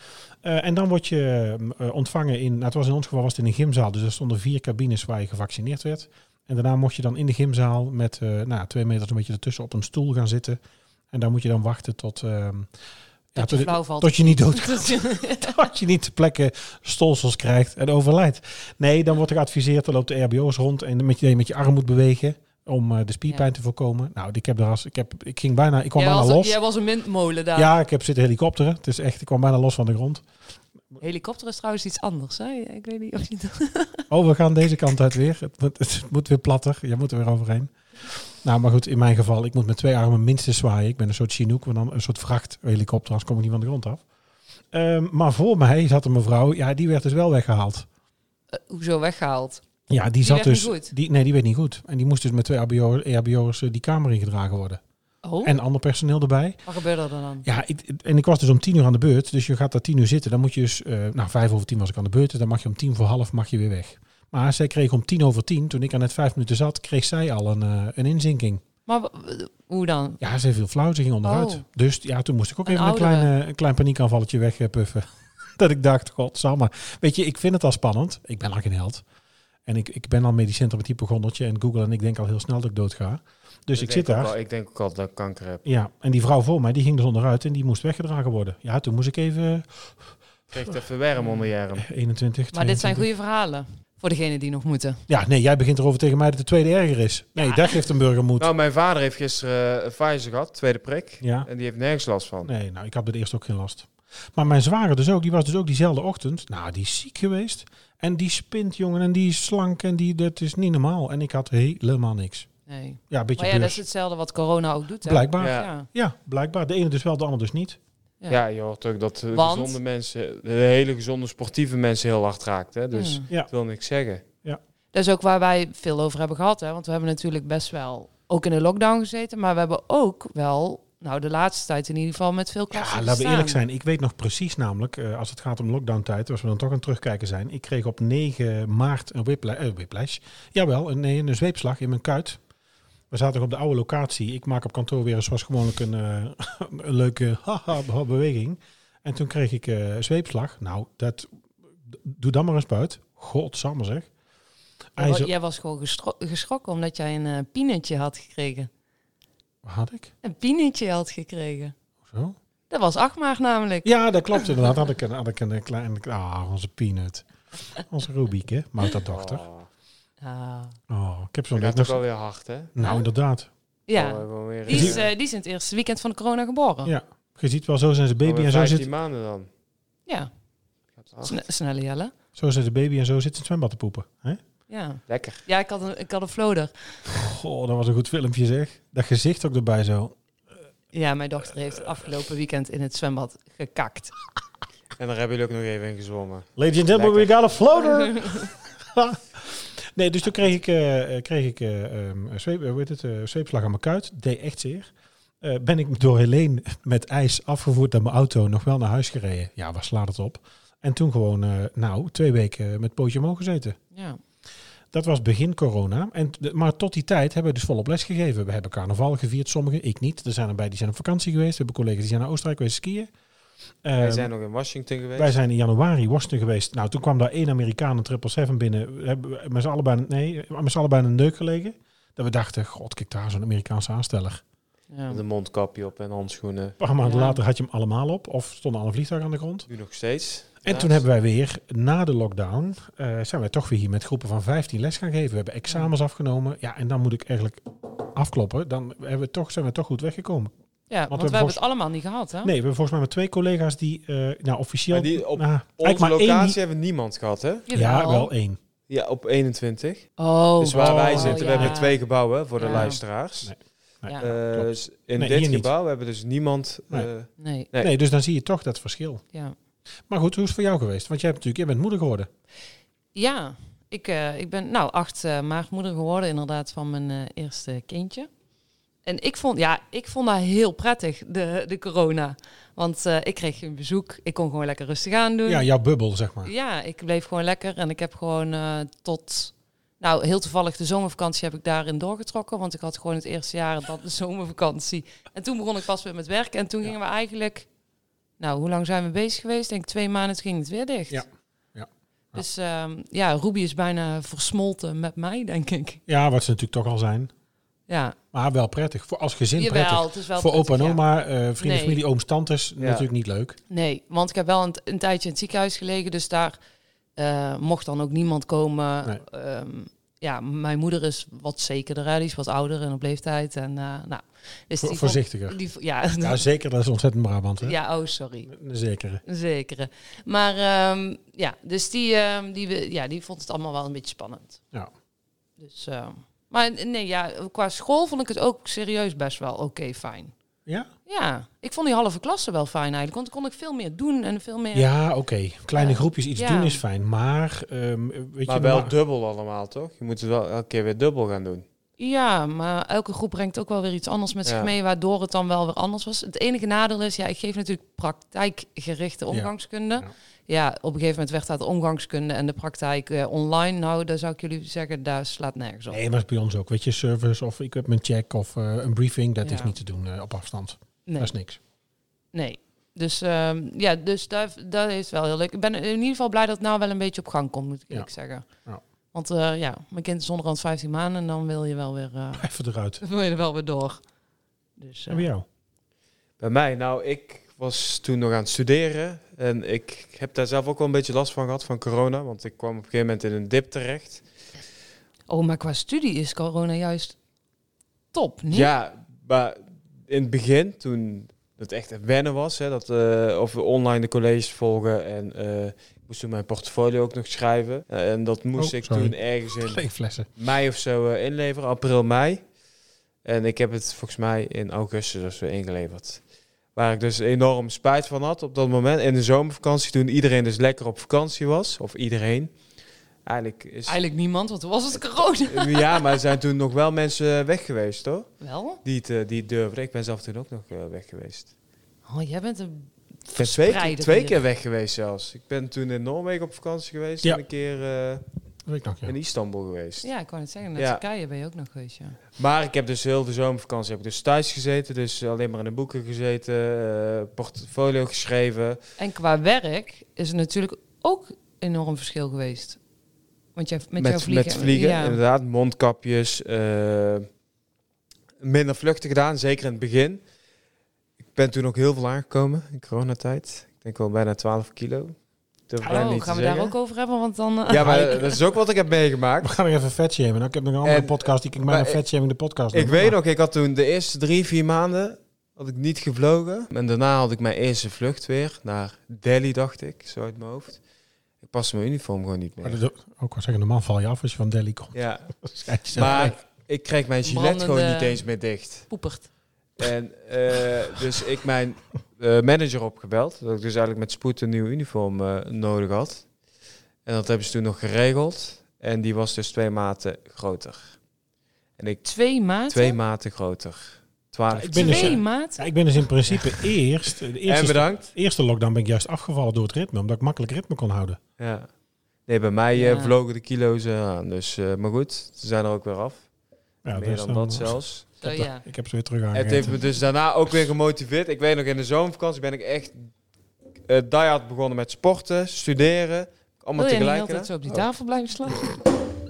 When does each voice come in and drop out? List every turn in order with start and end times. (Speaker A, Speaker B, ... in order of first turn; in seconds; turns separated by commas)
Speaker A: 0.4-10.6, Speaker A: 11.1-12.7, Speaker A: 13.3-26.6, Speaker B: 13.4-15.7, Speaker B: 26.0-27.7, Speaker A: 27.6-30.2, Speaker B: 31.0-34.0, Speaker A: 34.1-44.0, Speaker A: 44.7-47.9, Speaker B: 48.5-49.6, Speaker A: 49.9-54.8, Speaker B: 50.2-50.9, Speaker B: 55.2-55.5, Speaker A: 55.4-56.6, Speaker B: 56.6-57.5, Speaker A: 57.4-68.6, Speaker B: 68.9-70.2, Speaker A: 70.2-79.0, Speaker B: 71.2-71.7, Speaker B: 72.7-73.3, Speaker A: 79.7-84.3, Speaker C: 83.8-85.6, Speaker A: 85.7-90.0, Speaker C: 90.5-91.9, Speaker B: 91.2-91.5, Speaker A: 91.8-93.1, Speaker B: 92.5-95.0, Speaker A: 95.1-98.5, Speaker B: 97.4-97.8, Speaker C: 98.4-102.5, Speaker A: 101.2-101.5, Speaker A: 102.4-112.5, Speaker B: 112.7-115.9, Speaker A: 113.1-113.8, Speaker A: 115.0-117.8, Speaker C: 115.4-115.7, Speaker C: 118.3-124.2, Speaker B: 119.3-119.8, Speaker B: 122.9-123.3, Speaker B: 124.9-133.6, Speaker A: 132.7-142.4, Speaker A: 143.1-151.3, Speaker A: 151.9-154.1, Speaker A: 155.0-155.3, Speaker B: 155.0-158.7, Speaker A: 159.6-160.1, Speaker B: 160.2-161.7, Speaker A: 162.1-162.4, Speaker B: 162.7-164.4, Speaker A: 163.8-169.5, Speaker C: 169.1-169.7, Speaker B: 170.2-170.8, Speaker A: 170.9-172.0, Speaker C: 171.5-172.8, Speaker A: 172.7-173.5, Speaker B: 172.8-173.1, Speaker B: 173.9-176.9, Speaker C: 173.9-175.1, Speaker A: 174.7-175.0, Speaker A: 176.9-178.9, Speaker C: 178.2-179.5, Speaker C: 181.0-181.4, Speaker B: 181.3-182.1, Speaker A: 182.4-184.4, Speaker B: 184.7-187.0, Speaker C: 185.1-185.4, Speaker A: 187.1-190.2, Speaker B: 190.9-194.1, Speaker C: 195.0-197.3, Speaker A: 196.6-204.9, Speaker B: 198.0-198.4, Speaker A: 205.4-213.8, Speaker B: 213.9-214.2, Speaker A: 214.9-223.1, Speaker A: 223.8-224.3, Speaker C: 224.0-225.4, Speaker A: 225.2-234.4, Speaker B: 234.9-235.2, Speaker C: 235.1-236.8, Speaker A: 236.8-239.7, Speaker B: 237.0-237.4, Speaker C: 239.7-241.1, Speaker A: 240.6-250.5, Speaker B: 250.9-252.5, Speaker A: 251.1-251.6, Speaker A: 252.4-256.6, Speaker C: 254.9-257.7, Speaker B: 257.7-258.3, Speaker A: 257.7-258.6, Speaker C: 258.9-263.5, Speaker B: 260.2-262.0, Speaker A: 260.8-261.8, Speaker B: 262.6-263.0, Speaker A: 263.4-265.7, Speaker C: 264.2-267.9, Speaker B: 267.4-267.7, Speaker A: 267.8-269.2, Speaker A: 270.1-272.3, Speaker B: 273.1-278.3, Speaker B: 279.1-285.7, Speaker A: 285.5-286.5, Speaker B: 286.4-297.7, Speaker B: 298.4-301.2, Speaker A: 301.1-302.4, Speaker B: 302.4-306.0, Speaker A: 306.1-307.3, Speaker B: 307.9-308.2, Speaker A: 308.3-313.6, Speaker B: 309.6-311.0, Speaker B: 311.6-312.0, Speaker C: 312.8-313.1, Speaker B: 313.7-316.6, Speaker B: 317.2-326.4, Speaker A: 324.8-325.6, Speaker A: 326.2-327.8, Speaker B: 327.6-328.5, Speaker A: 328.5-329.2, Speaker B: 329.2-334.6, Speaker B: 335.6-340.3, Speaker B: 341.1-344.9, Speaker A: 344.7-348.9, Speaker B: 345.8-346.8, Speaker C: 348.5-351.7, Speaker B: 352.0-366.0, Speaker C: 354.4-354.7, Speaker A: 359.3-360.1, Speaker A: 365.9-371.6, Speaker B: 369.4-369.7, Speaker B: 371.1-371.3, Speaker B: 372.3-378.4, Speaker B: 379.1-382.5, Speaker A: 382.4-383.0, Speaker B: 383.0-384.0, Speaker B: 384.8-385.3, Speaker A: 385.1-385.4, Speaker C: 386.4-394.2, Speaker B: 395.3-397.1, Speaker B: 398.1-398.7, Speaker C: 398.5-409.8, Speaker A: 408.6-410.3, Speaker C: 410.4-412.4, Speaker C: 413.2-416.2, Speaker C: 416.8-422.5, Speaker C: 423.2-424.0, Speaker B: 423.9-426.1, Speaker C: 425.5-428.3, Speaker B: 428.4-428.8, Speaker C: 428.8-431.5, Speaker B: 432.1-434.4, Speaker C: 433.3-438.2, Speaker A: 438.7-439.1, Speaker C: 439.0-440.1, Speaker B: 440.0-442.2, Speaker C: 440.8-441.0, Speaker C: 442.4-448.8, Speaker B: 449.0-452.8, Speaker B: 453.6-455.2, Speaker C: 454.0-457.3, Speaker C: 458.4-460.2, Speaker C: 461.4-465.2, Speaker C: 465.7-466.7, Speaker B: 465.8-468.4, Speaker C: 467.7-469.5, Speaker A: 469.4-473.2, Speaker C: 470.8-472.0, Speaker C: 472.7-480.8, Speaker C: 481.4-482.8, Speaker A: 482.6-486.4, Speaker C: 484.9-485.3, Speaker C: 485.9-488.9, Speaker B: 487.2-488.2, Speaker B: 488.9-489.3, Speaker C: 489.8-496.2, Speaker C: 497.1-501.0, Speaker C: 501.8-502.0, Speaker B: 502.1-503.0, Speaker C: 502.7-505.2, Speaker A: 504.5-511.2, Speaker B: 504.7-505.6, Speaker C: 507.4-508.1, Speaker C: 511.4-511.7, Speaker C: 512.3-516.2, Speaker B: 512.7-513.1, Speaker A: 516.9-519.7, Speaker C: 516.9-518.1, Speaker B: 518.2-518.6, Speaker C: 519.3-523.1, Speaker C: 523.9-527.5, Speaker B: 526.8-528.7